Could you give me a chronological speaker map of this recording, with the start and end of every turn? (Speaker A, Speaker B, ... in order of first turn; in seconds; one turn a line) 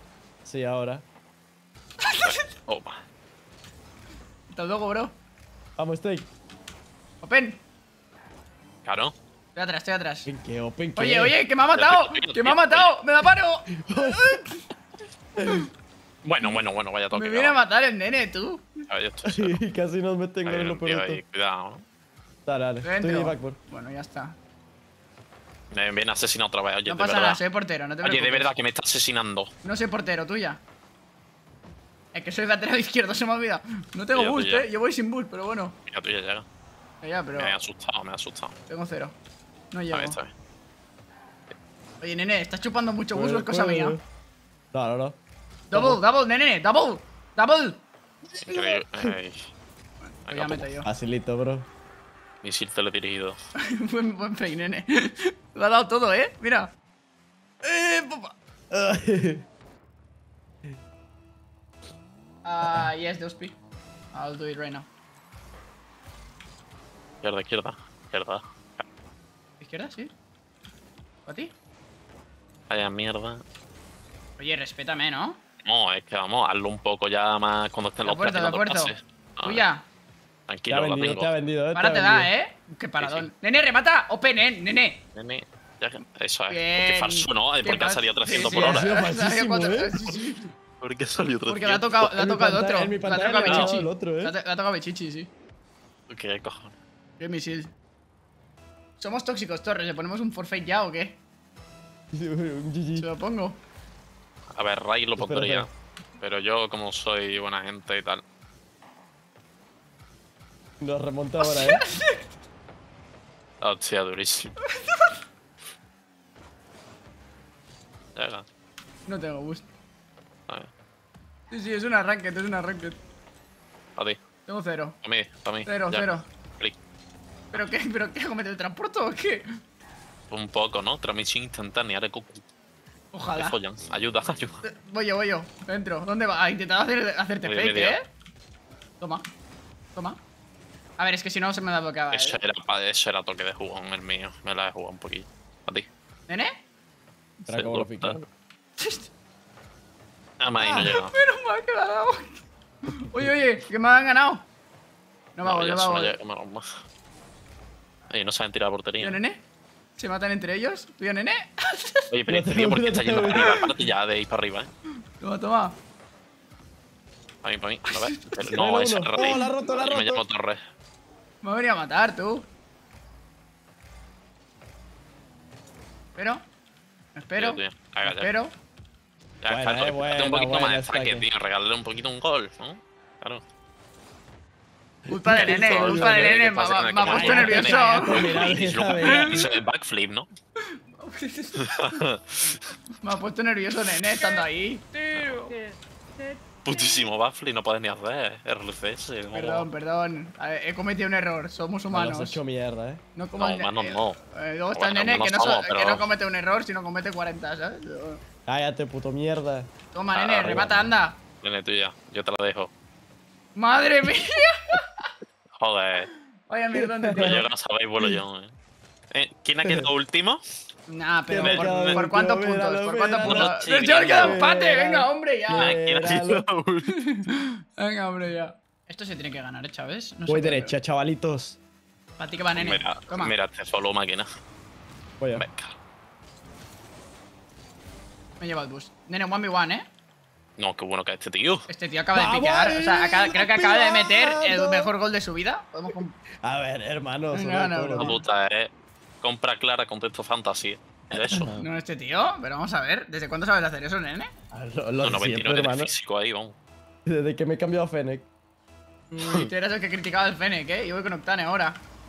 Speaker A: 0.4-1.0
Speaker B: 2.0-2.5
Speaker C: 2.2-3.0
Speaker B: 4.5-5.2
Speaker A: 5.8-6.3
Speaker B: 7.2-7.6
Speaker C: 8.8-9.1
Speaker B: 9.5-10.3
Speaker A: 10.2-11.3
Speaker B: 10.9-14.6
Speaker C: 11.7-12.9
Speaker A: 13.8-14.4
Speaker A: 15.4-15.6
Speaker C: 16.2-17.6
Speaker B: 17.1-18.7
Speaker C: 18.9-19.6
Speaker A: 19.2-21.2
Speaker C: 20.4-21.8
Speaker A: 22.4-23.6
Speaker B: 22.8-24.4
Speaker C: 25.7-27.4
Speaker B: 26.9-28.5
Speaker C: 28.0-29.5
Speaker B: 29.6-30.6
Speaker B: 32.1-35.8
Speaker C: 34.1-34.7
Speaker C: 35.9-36.4
Speaker B: 37.0-37.6
Speaker C: 37.3-38.5
Speaker B: 38.7-39.1
Speaker B: 39.7-40.2
Speaker C: 39.9-40.3
Speaker B: 42.0-44.0
Speaker A: 43.1-44.0
Speaker A: 44.7-45.2
Speaker B: 45.7-47.8
Speaker A: 45.7-46.0
Speaker C: 48.4-49.5
Speaker B: 48.5-48.8
Speaker A: 48.5-49.1
Speaker B: 50.0-50.9
Speaker C: 50.3-50.7
Speaker A: 50.8-51.7
Speaker C: 52.4-53.4
Speaker B: 53.6-56.7
Speaker B: 57.6-58.3
Speaker A: 58.7-59.4
Speaker B: 62.4-63.5
Speaker B: 64.1-64.9
Speaker C: 67.2-68.8
Speaker B: 69.6-70.1
Speaker B: 71.2-71.5
Speaker C: 72.7-73.4
Speaker B: 74.4-75.4
Speaker C: 75.6-79.6
Speaker B: 78.0-79.8
Speaker C: 80.5-81.3
Speaker A: 80.7-82.3
Speaker B: 81.7-85.0
Speaker C: 83.0-83.3
Speaker C: 85.1-88.9
Speaker B: 86.5-90.5
Speaker A: 88.3-90.0
Speaker C: 90.8-92.0
Speaker B: 91.5-95.3
Speaker A: 92.0-94.3
Speaker C: 93.4-93.7
Speaker C: 96.1-96.7
Speaker B: 97.2-97.7
Speaker B: 99.0-101.2
Speaker A: 102.1-103.1
Speaker B: 103.0-103.6
Speaker C: 104.5-108.2
Speaker A: 105.2-105.7
Speaker A: 110.8-111.8
Speaker B: 111.4-112.3
Speaker C: 113.6-114.5
Speaker B: 114.6-115.1
Speaker C: 118.1-118.4
Speaker B: 119.1-119.7
Speaker B: 121.5-123.0
Speaker B: 124.5-125.0
Speaker C: 125.0-126.8
Speaker B: 125.7-126.3
Speaker B: 127.5-129.4
Speaker C: 130.3-132.4
Speaker B: 133.1-133.6
Speaker C: 133.3-134.6
Speaker B: 134.6-138.1
Speaker C: 137.4-138.0
Speaker B: 139.0-139.2
Speaker B: 141.0-142.4
Speaker C: 142.1-145.9
Speaker B: 146.3-146.6
Speaker C: 147.5-148.2
Speaker A: 147.5-148.2
Speaker B: 148.8-149.1
Speaker C: 150.4-151.2
Speaker B: 150.6-154.4
Speaker B: 155.3-156.1
Speaker C: 155.4-156.6
Speaker C: 158.1-159.2
Speaker B: 159.0-159.4
Speaker B: 160.0-162.1
Speaker C: 162.1-164.7
Speaker A: 162.3-163.5
Speaker B: 163.2-163.6
Speaker B: 165.2-165.8
Speaker C: 167.4-170.6
Speaker B: 167.9-168.2
Speaker A: 168.4-170.2
Speaker B: 171.4-172.4
Speaker B: 176.2-176.4
Speaker B: 177.1-178.5
Speaker C: 177.4-178.3
Speaker C: 179.4-183.4
Speaker A: 179.5-181.3
Speaker A: 185.1-186.4
Speaker B: 185.1-188.4
Speaker C: 185.3-190.3
Speaker A: 187.0-189.4
Speaker B: 189.0-189.4
Speaker B: 191.0-192.0
Speaker C: 191.6-192.6
Speaker B: 193.0-195.6
Speaker C: 195.1-195.5
Speaker B: 196.2-197.1
Speaker C: 196.6-199.7
Speaker B: 199.3-202.4
Speaker A: 201.9-203.0
Speaker B: 203.2-208.2
Speaker C: 203.3-204.2
Speaker C: 204.7-206.1
Speaker A: 208.5-209.7
Speaker B: 209.9-211.2
Speaker C: 210.1-210.6
Speaker A: 210.4-210.9
Speaker C: 211.4-212.7
Speaker B: 213.5-215.1
Speaker C: 215.6-216.1
Speaker B: 216.5-217.4
Speaker A: 216.7-217.4
Speaker C: 217.1-218.5
Speaker C: 219.1-220.4
Speaker A: 219.6-219.9
Speaker B: 220.9-225.8
Speaker A: 221.3-223.5
Speaker C: 221.4-222.0
Speaker C: 223.2-224.4
Speaker A: 224.1-226.4
Speaker C: 225.5-226.9
Speaker B: 227.0-230.7
Speaker A: 230.3-231.6
Speaker B: 232.2-233.3
Speaker C: 232.5-234.3
Speaker A: 235.2-235.4
Speaker C: 235.3-235.8
Speaker B: 238.4-239.8
Speaker C: 240.6-241.7
Speaker B: 241.7-246.1
Speaker A: 242.1-244.9
Speaker A: 246.4-248.2
Speaker B: 247.3-248.2
Speaker C: 248.0-251.6
Speaker A: 251.1-251.6
Speaker B: 251.6-254.3
Speaker A: 254.5-255.9
Speaker C: 255.0-256.6
Speaker A: 257.1-258.3
Speaker B: 259.1-261.8
Speaker C: 259.2-259.5